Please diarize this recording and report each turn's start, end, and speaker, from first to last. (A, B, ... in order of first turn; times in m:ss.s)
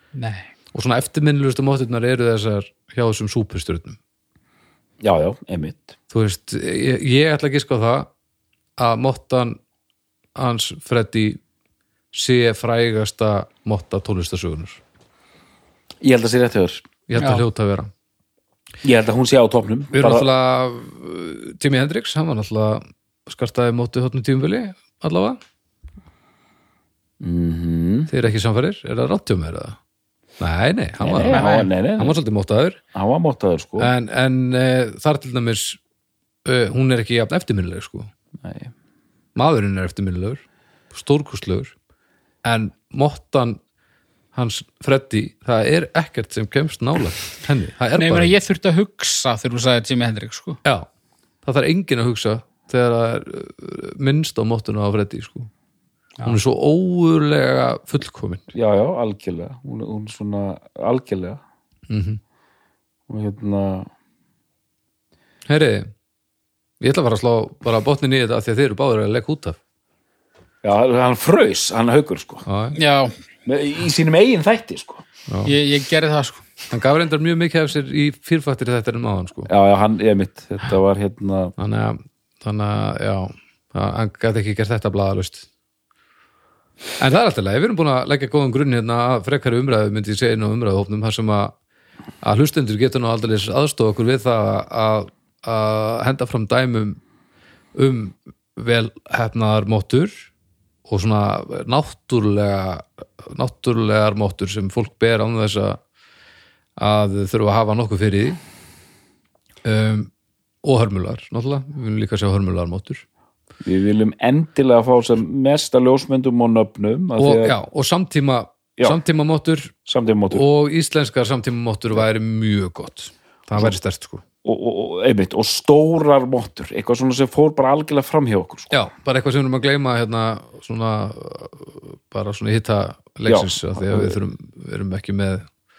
0:00.1-0:00.5 A
0:00.7-0:04.0 B
0:05.0-0:06.0 C
0:06.1-0:08.1 B
0:08.8-0:09.6 B
0:10.3-0:11.4 B
0:12.1-0:14.8 B
0:16.0-0:16.9 C
0:17.1-0:17.9 B
0:17.2-0:17.4 A
0:18.8-0:20.3 C
0:19.9-0:25.4 B
0:27.2-0:28.1 C
0:28.1-0:29.8 B
0:30.4-0:32.8 B
0:31.0-0:32.2 C
0:31.3-0:31.7 A
0:32.9-0:33.9 C
0:33.8-0:35.8 B
0:36.4-0:38.1 B
0:38.4-0:38.7 C
0:39.4-0:41.7 B
0:42.4-0:43.6 B
0:44.3-0:48.3 B
0:48.0-0:50.6 A
0:51.4-0:55.5 B
0:56.2-0:58.5 B
0:58.5-1:01.4 C
1:01.9-1:02.2 B
1:03.1-1:03.9 C
1:05.4-1:05.9 B
1:06.8-1:09.6 B
1:10.6-1:12.4 C
1:12.4-1:12.8 B
1:12.7-1:13.1 A
1:13.4-1:15.0 C
1:15.3-1:15.5 B
1:15.4-1:16.4 A
1:16.7-1:19.5 B
1:19.5-1:21.5 C
1:21.6-1:25.5 B
1:27.0-1:31.5 B
1:32.2-1:37.0 B
1:37.8-1:40.3 B
1:40.9-1:45.8 B
1:46.8-1:48.4 B
1:49.6-1:50.1 B
1:50.6-1:53.0 B
1:53.6-1:57.6 C
1:57.2-1:59.7 B
1:59.8-2:00.4 C
2:00.3-2:04.2 B
2:04.4-2:08.7 C
2:08.7-2:15.4 B
2:13.2-2:14.2 C